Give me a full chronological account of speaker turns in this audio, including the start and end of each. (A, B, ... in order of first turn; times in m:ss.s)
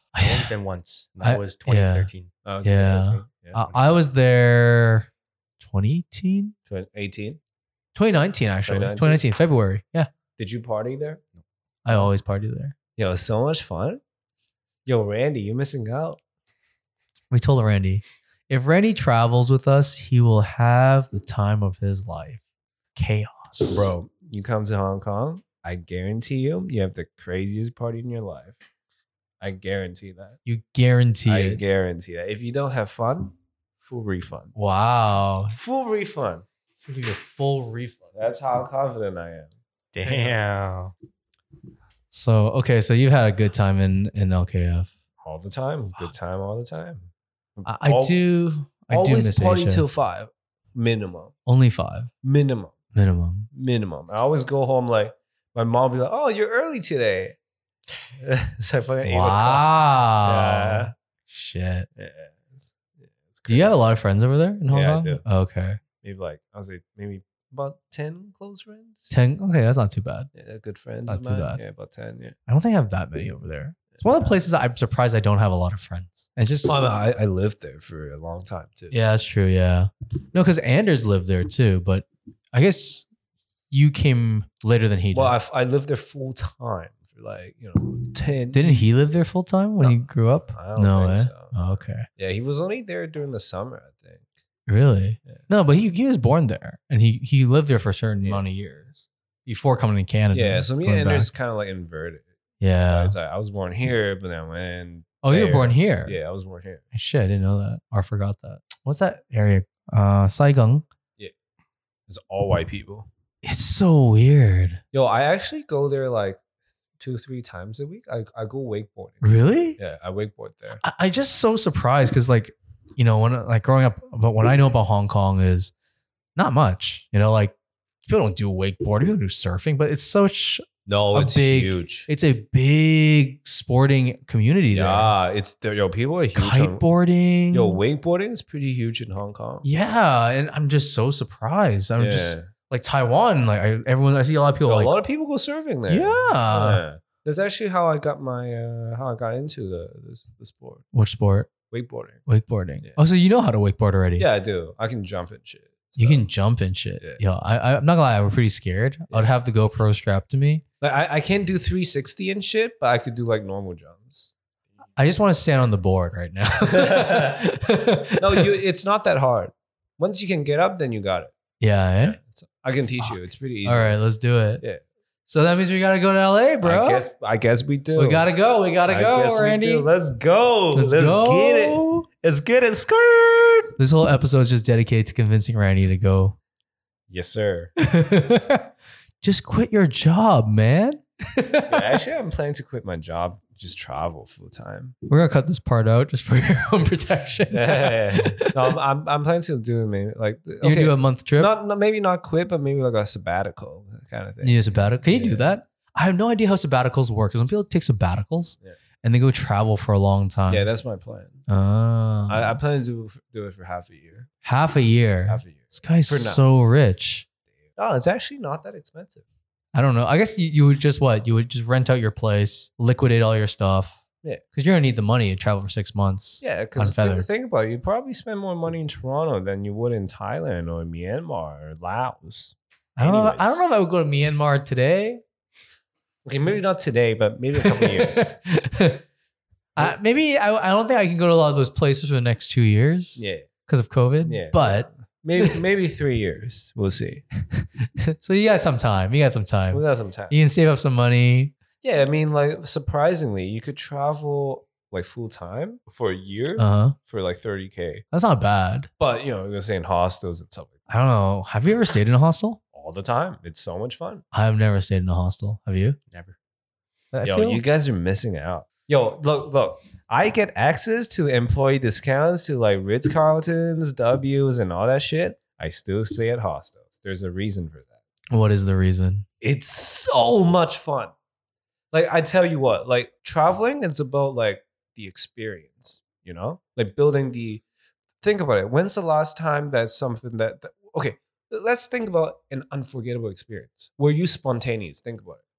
0:00.1-0:00.5 A
0:00.2-0:02.3 B
0:01.2-0:02.1 A
0:02.4-0:03.7 C
0:02.6-0:05.1 A
0:05.6-0:06.6 A
0:06.7-0:07.4 C
0:08.0-0:10.1 A
0:08.7-0:09.2 C
0:10.4-0:11.2 C
0:11.8-0:12.8 A
0:13.0-0:14.0 C
0:14.8-0:16.2 C
0:17.3-0:22.4 A
0:23.0-0:23.9 A
0:23.7-0:28.6 C
0:29.4-0:30.4 C
0:30.4-0:31.6 A
0:31.3-0:34.6 C
0:34.6-0:35.6 A
0:35.5-0:36.4 C
0:36.8-0:38.1 A
0:38.2-0:39.5 C
0:39.9-0:40.9 B
0:42.1-0:44.9 A
0:45.2-0:48.2 C
0:47.7-0:49.8 A
0:48.9-0:51.3 C
0:51.5-0:52.1 A
0:52.2-0:52.8 C
0:52.9-0:53.5 A
0:53.5-0:57.4 C
0:58.2-0:59.7 C
0:59.0-1:01.9 A
1:00.2-1:00.9 C
1:02.0-1:03.8 C
1:03.5-1:05.8 A
1:04.7-1:05.2 C
1:06.0-1:09.1 C
1:09.1-1:10.3 A
1:10.3-1:12.4 C
1:11.1-1:11.6 A
1:12.5-1:16.8 A
1:13.9-1:14.4 C
1:16.6-1:19.0 C
1:18.9-1:23.1 A
1:23.7-1:25.4 A
1:25.1-1:28.9 C
1:28.5-1:32.1 A
1:29.8-1:31.6 C
1:32.1-1:34.3 C
1:34.7-1:41.3 A
1:40.3-1:42.3 C
1:42.6-1:43.2 A
1:42.9-1:46.8 C
1:45.2-1:46.2 A
1:46.9-1:50.8 A
1:52.1-1:53.1 C
1:53.4-1:54.8 A
1:54.9-1:56.4 C
1:57.0-2:00.8 C
1:59.2-1:59.8 A
2:00.8-2:05.7 A
2:06.4-2:15.1 A
2:10.9-2:12.1 C
2:14.7-2:16.8 C
2:16.4-2:17.8 A
2:17.5-2:19.7 C
2:19.6-2:24.9 A
2:22.0-2:22.5 C
2:24.7-2:30.8 C
2:25.9-2:26.8 A
2:30.9-2:31.5 A
2:31.7-2:32.2 C
2:32.3-2:34.3 A
2:34.2-2:36.3 C
2:36.0-2:40.6 A
2:40.8-2:44.3 C
2:45.0-2:48.5 A
2:46.6-2:47.4 C
2:48.2-2:51.3 C
2:51.6-2:52.2 A
2:52.0-2:54.0 C
2:53.0-2:54.6 A
2:55.3-2:57.0 A
2:56.6-2:58.3 C
2:58.0-2:59.9 A
2:58.9-3:03.7 C
3:00.7-3:02.1 A
3:03.8-3:06.4 A
3:07.1-3:07.7 C
3:07.8-3:08.7 A
3:09.2-3:12.0 A
3:11.7-3:15.0 C
3:15.1-3:18.6 A
3:17.5-3:25.5 C
3:20.6-3:21.5 A
3:24.4-3:30.7 A
3:30.5-3:31.4 C
3:31.5-3:32.6 A
3:32.3-3:34.3 C
3:34.4-3:37.3 A
3:35.3-3:36.4 C
3:37.8-3:39.2 C
3:39.7-3:44.0 A
3:44.5-3:47.3 A
3:46.4-3:53.6 C
3:53.0-3:55.2 A
3:56.2-3:58.4 C
3:57.6-3:59.0 A
3:59.8-4:05.6 A
4:03.2-4:03.5 C
4:04.2-4:07.2 C
4:08.0-4:11.5 A
4:09.7-4:10.4 C
4:11.8-4:18.0 C
4:16.6-4:17.0 A
4:18.1-4:18.9 A
4:19.0-4:20.8 C
4:20.9-4:22.6 A
4:22.7-4:24.2 C
4:24.3-4:26.0 A
4:26.1-4:26.4 B
4:27.1-4:27.6 A
4:27.2-4:37.9 C
4:38.3-4:39.3 A
4:39.4-4:41.1 C
4:41.9-4:47.6 C
4:48.2-4:55.4 C